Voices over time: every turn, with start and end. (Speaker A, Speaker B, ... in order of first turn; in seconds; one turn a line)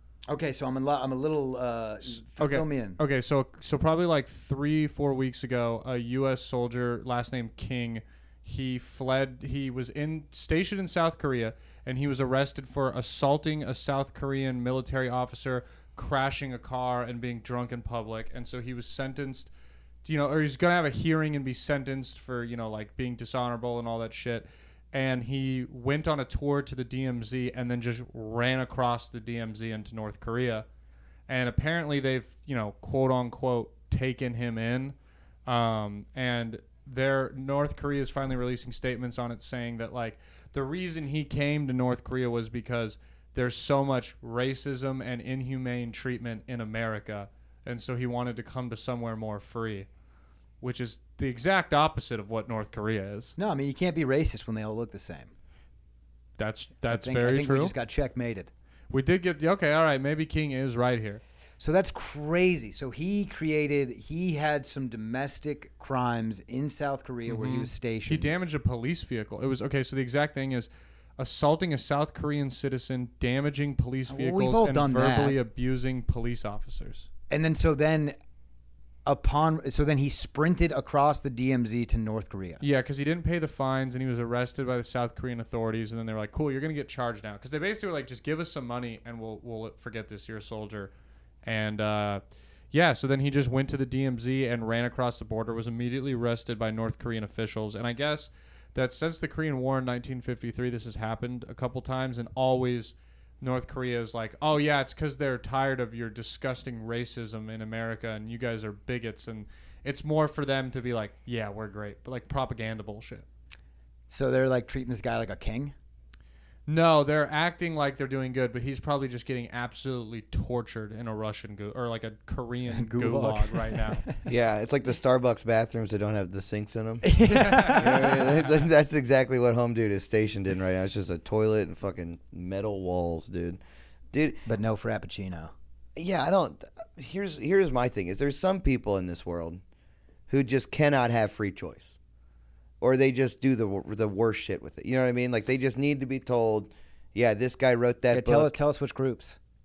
Speaker A: 0.3-3.0
Speaker B: 2.4-19.5
Speaker B: 20.1-30.7
Speaker B: 31.3-35.0
Speaker B: 35.5-49.9
Speaker B: 50.6-53.4
Speaker A: 53.4-55.3
Speaker B: 56.4-57.7
Speaker A: 56.9-58.5
Speaker B: 58.9-61.2
Speaker A: 61.6-68.3
Speaker B: 67.3-77.1
Speaker A: 74.1-75.4
Speaker A: 77.3-78.2
Speaker A: 79.1-82.6
Speaker B: 82.6-90.9
Speaker B: 91.4-113.3
Speaker A: 114.1-115.7
Speaker B: 116.7-124.0
Speaker A: 122.7-124.2
Speaker C: 124.3-127.1
Speaker A: 127.0-128.2
Speaker B: 127.3-128.1
Speaker C: 127.7-133.6
Speaker C: 134.1-134.4
Speaker A: 134.4-135.5
Speaker C: 135.9-139.6
Speaker C: 140.3-142.0
Speaker C: 142.8-148.6
Speaker A: 148.1-149.4